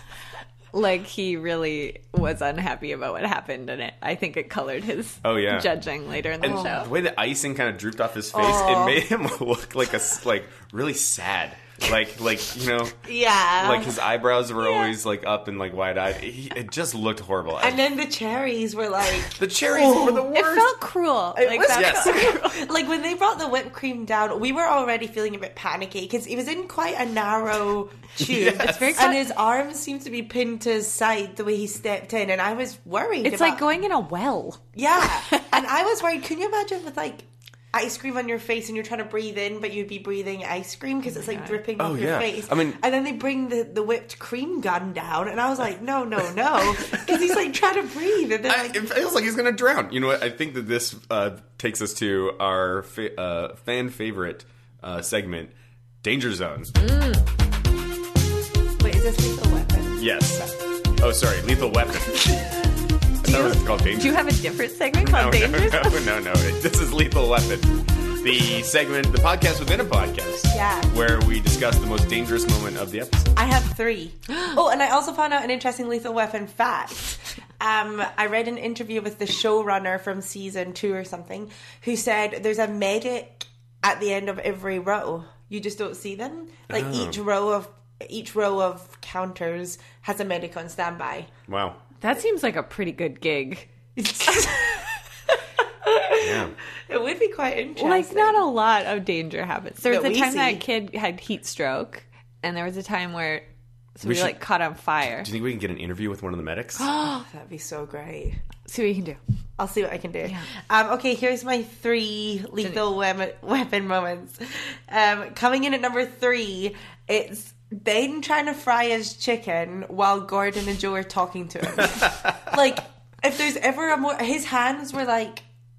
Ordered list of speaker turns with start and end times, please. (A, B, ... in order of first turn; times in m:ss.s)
0:00.7-0:06.9 A
0:05.2-0:05.7 B
0:06.4-0:13.0 B
0:08.3-0:09.0 C
0:13.0-0:14.0 C
0:13.6-0:17.8 B
0:14.6-0:14.9 A
0:17.6-0:20.3 C
0:19.3-0:20.7 B
0:20.3-0:22.7 A
0:21.4-0:33.6 C
0:21.7-0:22.2 B
0:28.2-0:29.0 B
0:28.5-0:29.3 A
0:33.2-0:34.6 A
0:34.8-0:48.8 C
0:35.3-0:35.6 A
0:41.1-0:41.6 A
0:41.8-0:42.8 B
0:48.5-0:56.7 B
0:56.8-0:57.2 A
0:58.8-1:00.0 C
1:00.0-1:02.5 B
1:03.2-1:04.3 B
1:03.2-1:06.1 A
1:05.0-1:13.3 B
1:10.5-1:10.9 C
1:13.4-1:31.3 C
1:26.7-1:27.2 B
1:31.5-1:31.8 B
1:32.0-1:33.7 A
1:34.0-1:35.0 C
1:35.8-1:38.4 C
1:36.2-1:36.6 B
1:37.8-1:45.3 A
1:39.8-1:40.6 C
1:44.0-1:44.4 B
1:45.2-1:46.9 B
1:46.8-1:47.3 A
1:47.0-1:48.4 C
1:48.7-1:49.2 A
1:49.6-2:05.4 C